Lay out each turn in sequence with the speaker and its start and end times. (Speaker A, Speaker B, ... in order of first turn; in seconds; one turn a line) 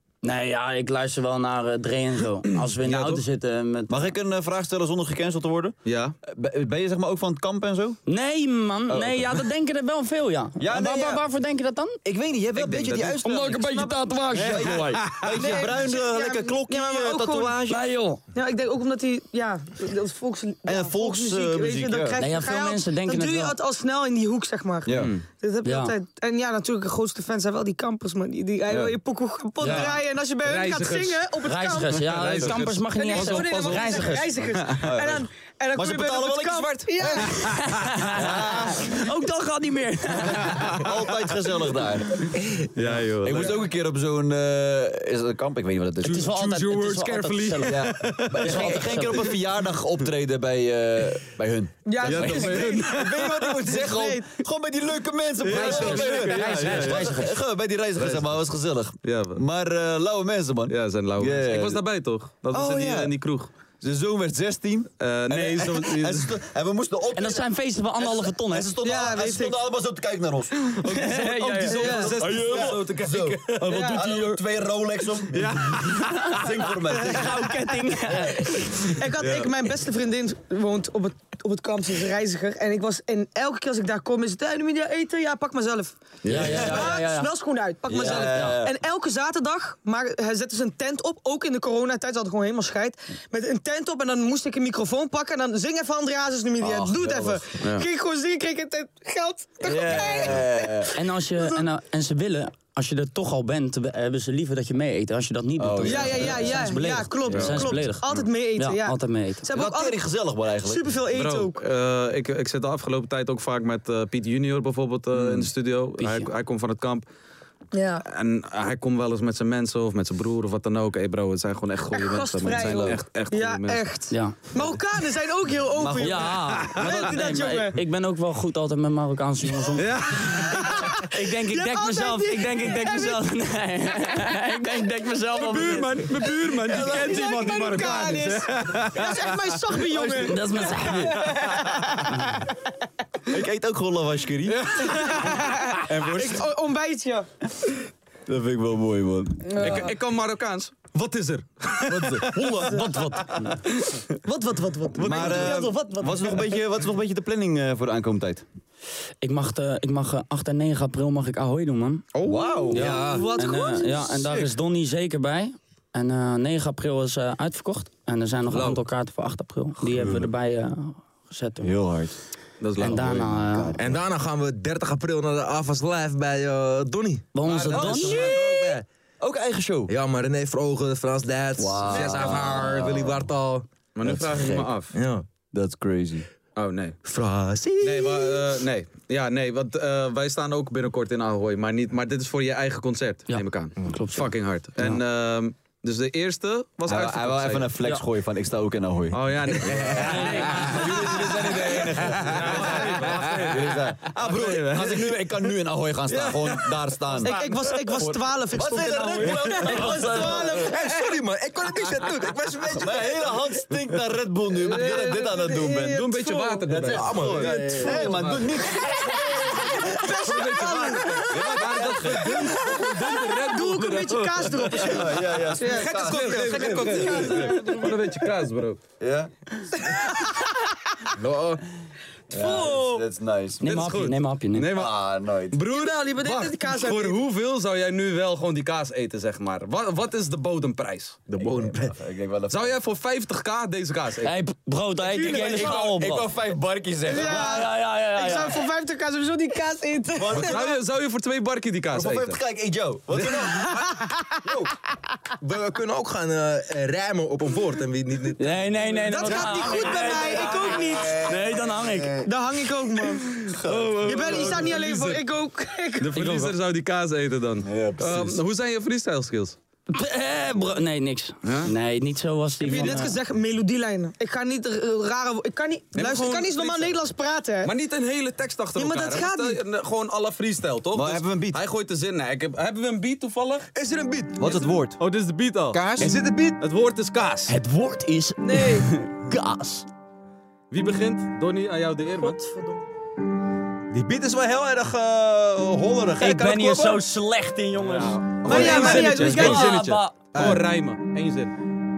Speaker A: 0.2-4.0
Speaker B: 2.8-3.2
Speaker B: 3.9-5.8
Speaker C: 5.8-6.2
Speaker B: 6.3-8.0
Speaker A: 8.1-12.0
Speaker B: 8.9-9.5
Speaker B: 10.6-11.2
Speaker B: 12.1-13.7
Speaker A: 12.6-15.3
Speaker D: 13.7-14.0
Speaker B: 14.3-17.8
Speaker C: 14.7-15.3
Speaker D: 15.4-17.6
Speaker A: 17.6-18.2
Speaker D: 18.4-37.5
Speaker B: 20.6-22.2
Speaker A: 22.2-23.6
Speaker B: 24.9-25.2
Speaker C: 24.9-25.2
Speaker A: 25.6-26.0
Speaker B: 28.7-29.0
Speaker C: 29.6-31.3
Speaker A: 31.4-34.3
Speaker C: 32.0-34.9
Speaker B: 34.6-37.3
Speaker C: 37.3-38.1
Speaker A: 37.3-40.9
Speaker B: 38.1-39.1
Speaker B: 40.2-42.3
Speaker C: 40.5-40.9
Speaker E: 42.4-42.6
Speaker C: 42.8-43.6
Speaker B: 43.2-46.6
Speaker C: 46.0-49.3
Speaker A: 46.0-47.9
Speaker B: 47.6-61.8
Speaker A: 48.4-49.4
Speaker D: 51.9-54.3
Speaker C: 52.0-53.5
Speaker C: 55.4-57.3
Speaker A: 55.5-57.4
Speaker C: 58.0-58.2
Speaker C: 59.0-59.4
Speaker C: 60.7-63.5
Speaker B: 62.5-63.2
Speaker B: 63.8-67.5
Speaker C: 65.0-66.3
Speaker A: 67.1-68.8
Speaker B: 68.0-70.8
Speaker D: 68.8-69.6
Speaker A: 70.6-72.9
Speaker C: 70.8-73.8
Speaker B: 71.6-78.3
Speaker D: 71.7-72.1
Speaker A: 73.5-74.5
Speaker D: 73.7-74.0
Speaker C: 75.3-77.3
Speaker A: 76.0-78.8
Speaker D: 78.7-101.6
Speaker C: 79.2-79.5
Speaker C: 86.2-86.9
Speaker B: 86.3-87.0
Speaker A: 86.3-87.3
Speaker B: 87.9-88.8
Speaker A: 87.9-88.7
Speaker B: 96.6-97.5
Speaker B: 99.6-101.1
Speaker A: 101.0-109.5
Speaker B: 105.6-107.9
Speaker D: 105.8-110.0
Speaker C: 107.3-108.2
Speaker B: 109.5-111.0
Speaker D: 110.6-111.6
Speaker C: 111.1-117.0
Speaker B: 115.1-115.5
Speaker A: 116.0-116.3
Speaker D: 117.7-118.0
Speaker C: 118.1-123.9
Speaker D: 121.9-127.8
Speaker B: 122.5-123.0
Speaker A: 124.1-124.5
Speaker B: 125.7-126.5
Speaker A: 126.0-137.0
Speaker C: 126.3-127.4
Speaker C: 129.8-130.9
Speaker D: 130.5-133.2
Speaker C: 135.3-139.6
Speaker D: 136.2-142.1
Speaker B: 139.8-141.2
Speaker A: 140.2-141.5
Speaker C: 141.2-141.9
Speaker A: 142.1-142.4
Speaker B: 143.3-144.7
Speaker C: 144.5-145.4
Speaker D: 144.8-147.3
Speaker B: 145.8-146.5
Speaker B: 148.3-149.9
Speaker D: 149.5-149.9
Speaker C: 149.6-154.1
Speaker B: 151.9-152.8
Speaker A: 152.6-153.6
Speaker D: 154.2-156.6
Speaker B: 154.9-158.4
Speaker A: 155.1-155.6
Speaker A: 159.2-162.1
Speaker B: 162.2-163.4
Speaker C: 162.3-162.8
Speaker D: 162.7-164.3
Speaker A: 162.7-171.8
Speaker B: 164.1-164.5
Speaker B: 169.8-170.3
Speaker B: 171.6-172.2
Speaker C: 172.6-173.1
Speaker A: 172.8-173.8
Speaker B: 172.8-173.9
Speaker E: 173.7-178.8
Speaker A: 177.3-178.3
Speaker B: 177.5-179.9
Speaker C: 177.8-178.1
Speaker E: 179.9-183.7
Speaker B: 181.6-183.2
Speaker D: 182.3-182.6
Speaker C: 183.9-185.0
Speaker B: 184.0-184.7
Speaker E: 184.9-185.3
Speaker B: 185.5-186.3
Speaker C: 186.6-187.0
Speaker E: 187.0-188.6
Speaker C: 187.8-197.7
Speaker A: 193.3-195.0
Speaker B: 196.9-210.7
Speaker A: 197.8-198.1
Speaker C: 199.1-205.5
Speaker E: 199.7-200.1
Speaker A: 200.0-201.4
Speaker E: 203.0-203.5
Speaker C: 206.1-207.5
Speaker D: 207.2-210.8
Speaker A: 209.6-210.6
Speaker E: 210.6-213.4
Speaker B: 212.7-216.0
Speaker D: 214.6-216.7
Speaker C: 215.9-218.4
Speaker B: 216.7-219.7
Speaker E: 216.8-218.2
Speaker D: 217.7-218.1
Speaker D: 219.4-221.7
Speaker C: 219.8-225.0
Speaker B: 221.1-222.6
Speaker D: 222.4-228.0
Speaker B: 224.7-227.2
Speaker E: 225.8-227.2
Speaker C: 225.8-228.8
Speaker B: 229.0-229.3
Speaker B: 232.3-233.8
Speaker D: 232.3-233.0
Speaker A: 233.6-234.7
Speaker C: 233.6-241.2
Speaker B: 234.7-235.6
Speaker D: 235.7-237.2
Speaker E: 241.3-242.0
Speaker B: 241.4-242.8
Speaker C: 242.5-244.4
Speaker A: 244.2-246.3
Speaker C: 245.0-245.9
Speaker B: 245.1-247.6
Speaker D: 247.1-250.6
Speaker A: 247.2-248.6
Speaker B: 250.2-250.8
Speaker C: 250.4-252.4
Speaker B: 251.9-253.8
Speaker E: 253.4-254.7
Speaker D: 253.5-254.1
Speaker E: 255.4-258.5
Speaker A: 258.4-262.2
Speaker D: 259.1-261.3
Speaker B: 259.7-262.3
Speaker D: 262.2-263.5
Speaker B: 263.3-264.8
Speaker C: 263.6-265.2
Speaker D: 264.0-266.2
Speaker C: 266.0-269.6
Speaker A: 266.2-266.6
Speaker B: 267.6-268.4
Speaker A: 269.9-273.2
Speaker C: 271.4-271.7
Speaker D: 272.6-277.7
Speaker C: 272.6-273.1
Speaker C: 275.9-277.0
Speaker C: 277.6-283.7
Speaker D: 278.8-279.6
Speaker B: 280.9-281.6
Speaker E: 283.8-284.6
Speaker B: 284.4-285.0
Speaker C: 285.0-285.8
Speaker B: 285.7-286.2
Speaker E: 286.0-286.6
Speaker C: 286.6-287.6
Speaker A: 287.5-289.9
Speaker D: 288.4-288.9
Speaker C: 290.7-292.4
Speaker D: 292.2-292.8
Speaker E: 293.9-297.0
Speaker A: 296.2-300.3
Speaker C: 297.9-301.6
Speaker D: 298.4-299.8
Speaker E: 300.3-300.6